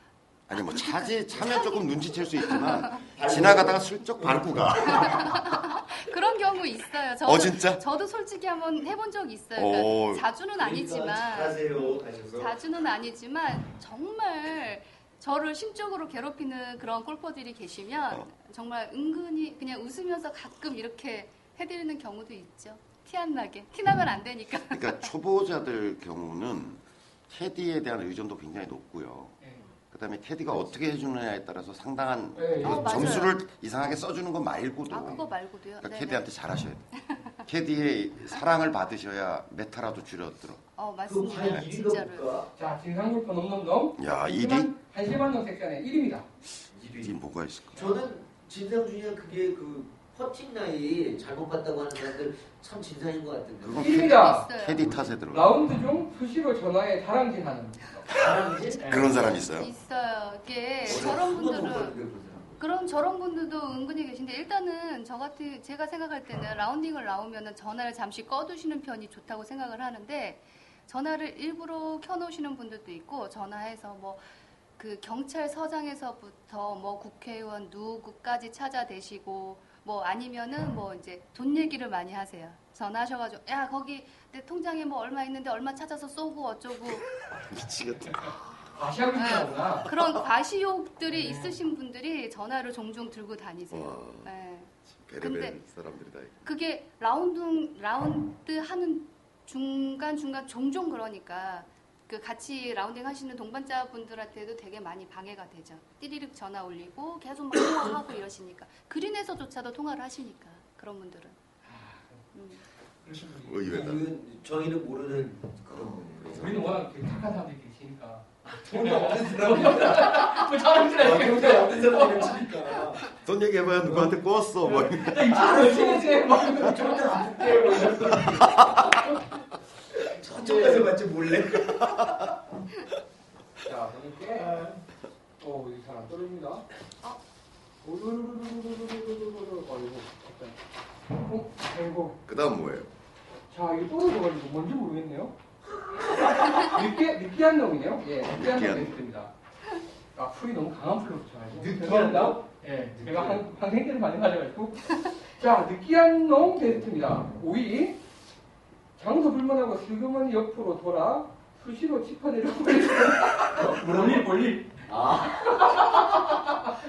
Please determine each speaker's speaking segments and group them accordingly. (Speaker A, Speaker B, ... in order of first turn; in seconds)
Speaker A: 0.5-5.5, 7.2-7.8, 9.6-10.2, 24.7-29.4, 29.9-35.2, 35.8-36.9, 37.4-40.6, 41.4-41.6, 44.0-44.7, 47.0-48.0, 53.6-55.6, 58.8-59.7, 87.3-88.6, 89.9-90.2, 93.7-94.3, 94.9-96.5, 113.4-114.1, 115.7-116.6, 123.2-125.6, 128.4-128.9, 142.3-142.9, 148.2-149.0
Speaker B: 0.5-3.0, 4.9-25.1, 32.6-33.4, 34.9-36.3, 40.8-42.3, 53.9-54.9, 59.4-62.0, 62.6-74.2, 74.8-87.1, 89.2-95.6, 96.4-111.4, 112.3-112.6
Speaker C: 3.1-5.4, 10.6-12.6, 41.1-42.5, 46.7-47.2, 47.7-54.0, 58.1-58.9, 60.8-62.6, 113.7-116.6, 118.5-123.2, 123.7-129.0, 130.0-132.4, 134.4-134.8, 151.6-153.5, 163.5-164.3, 164.8-165.9
Speaker D: 32.4-33.1, 42.5-46.3, 53.8-54.5, 55.3-58.1, 58.8-59.3, 88.2-89.9, 91.1-91.5, 111.7-112.2, 113.0-113.8, 116.3-122.8, 124.8-129.3, 130.2-130.9, 133.6-134.6, 135.4-136.7, 137.8-140.6, 141.1-142.2, 143.5-145.3, 146.1-149.3, 150.2-158.0, 159.0-166.8